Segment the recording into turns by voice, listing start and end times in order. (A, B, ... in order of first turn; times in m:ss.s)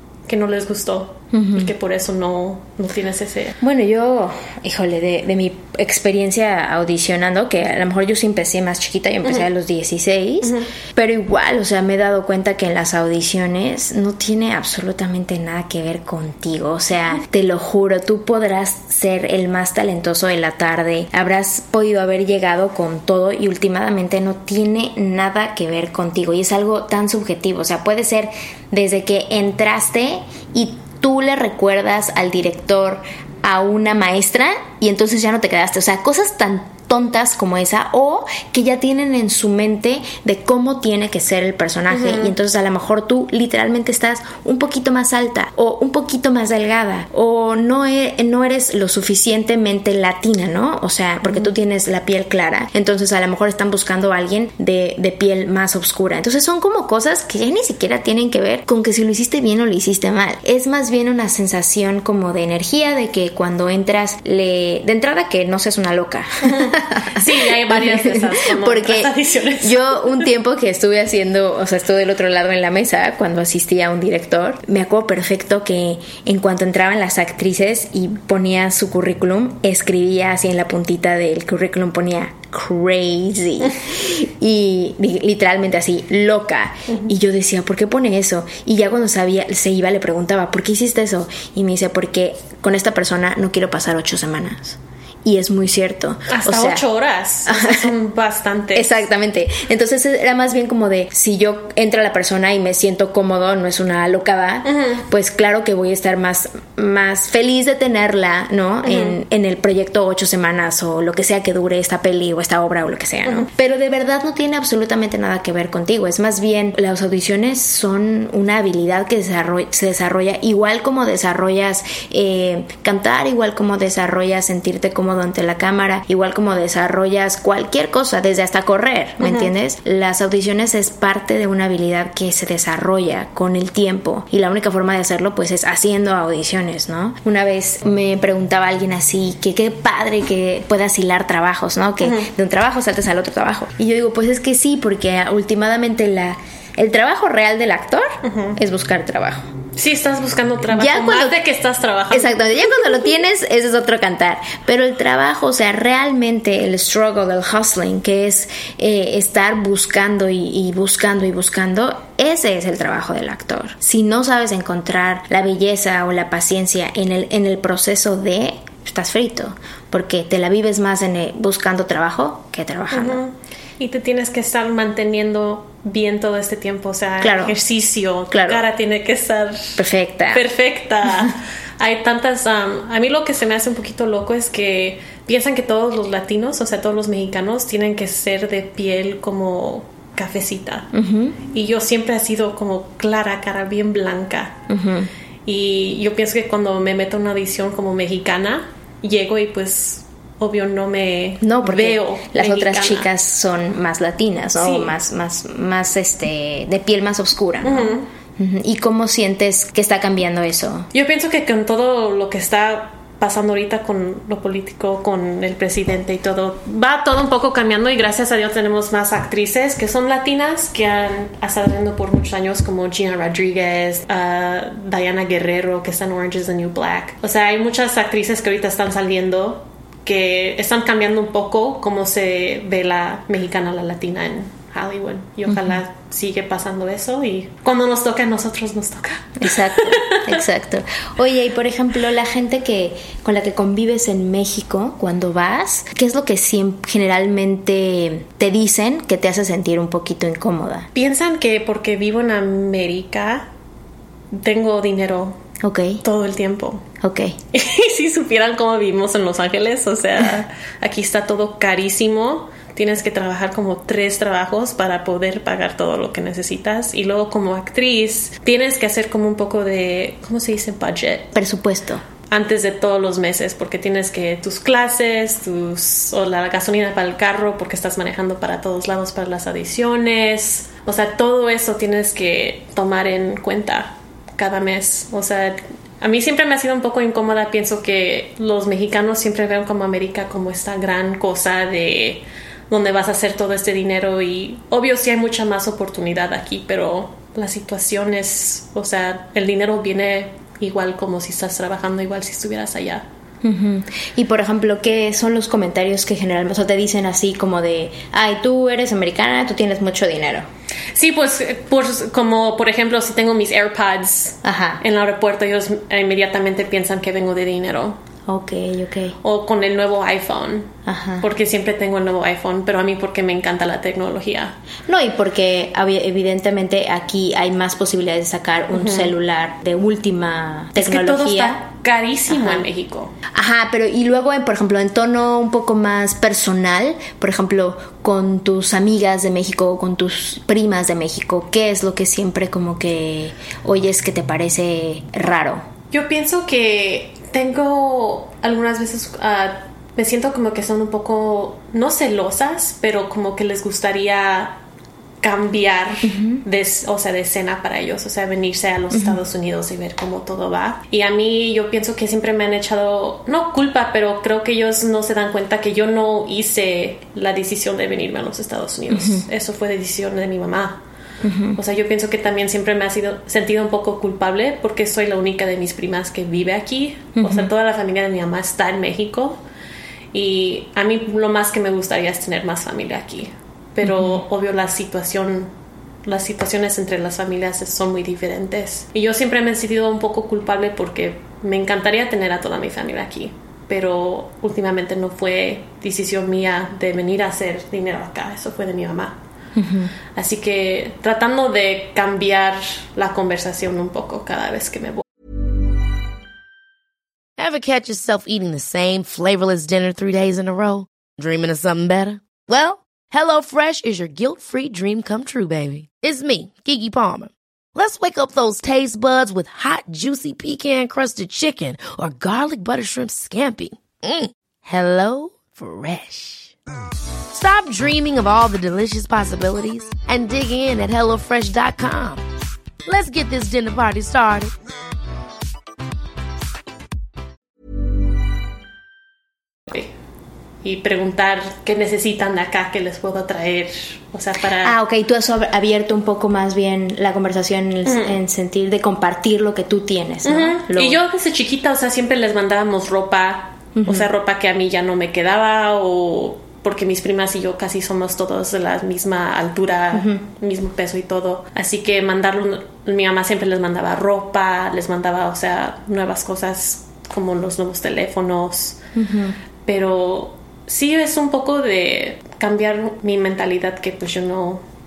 0:00.2-0:03.6 A
0:01.3-0:01.7 B
0:03.6-1:36.8 B
0:10.4-0:10.7 A
0:41.9-0:42.3 A
1:06.4-1:10.2 A
1:36.3-1:39.0 A
1:37.4-1:37.9 B
1:38.7-2:29.5 B
1:44.6-1:45.0 A
1:48.8-1:49.2 A
2:09.2-2:09.5 A
2:22.0-2:22.3 A
2:28.2-2:28.6 A
2:29.7-2:32.5 A
2:30.7-2:31.4 B
2:32.1-2:53.2 B
2:52.9-3:10.9 A
2:57.2-2:57.6 B
2:58.3-2:58.6 B
2:59.8-3:00.4 B
3:10.9-3:11.4 B
3:11.4-3:14.6 A
3:14.7-3:15.1 B
3:15.4-3:23.1 A
3:21.4-3:30.9 B
3:24.6-3:24.9 A
3:27.6-3:28.1 A
3:30.9-4:00.4 A
3:55.5-3:55.8 B
3:59.4-4:10.9 B
4:10.9-4:13.5 A
4:14.3-4:15.4 A
4:15.6-4:16.0 B
4:16.0-4:16.8 A
4:17.0-4:17.4 B
4:17.5-4:31.3 A
4:31.3-4:32.0 B
4:32.3-5:03.0 A
5:03.4-5:10.5 B
5:10.9-5:18.0 A
5:14.4-5:14.8 B
5:18.2-5:19.2 B
5:19.2-5:24.6 A
5:20.8-5:21.2 B
5:24.9-5:31.6 B
5:28.7-5:29.1 A
5:30.8-5:33.1 A
5:32.3-5:32.6 B
5:33.3-5:45.6 B
5:45.9-5:54.6 A
5:55.2-6:10.8 A
5:56.0-5:56.4 B
5:58.9-5:59.2 B
6:08.9-6:09.3 B
6:11.2-6:11.6 B
6:11.6-6:19.4 A
6:17.2-6:17.5 B
6:20.1-6:25.5 A
6:23.8-6:24.2 B
6:26.0-6:39.2 A
6:39.6-6:39.9 B
6:40.1-6:45.0 A
6:47.4-7:06.5 C
7:07.3-7:12.2 C
7:12.8-7:14.5 C
7:20.6-7:24.8 A
7:24.6-7:31.0 B
7:27.8-7:28.2 A
7:30.2-7:48.8 A
7:33.7-7:34.1 B
7:39.9-7:40.2 B
7:48.9-7:49.4 B
7:49.6-7:54.6 A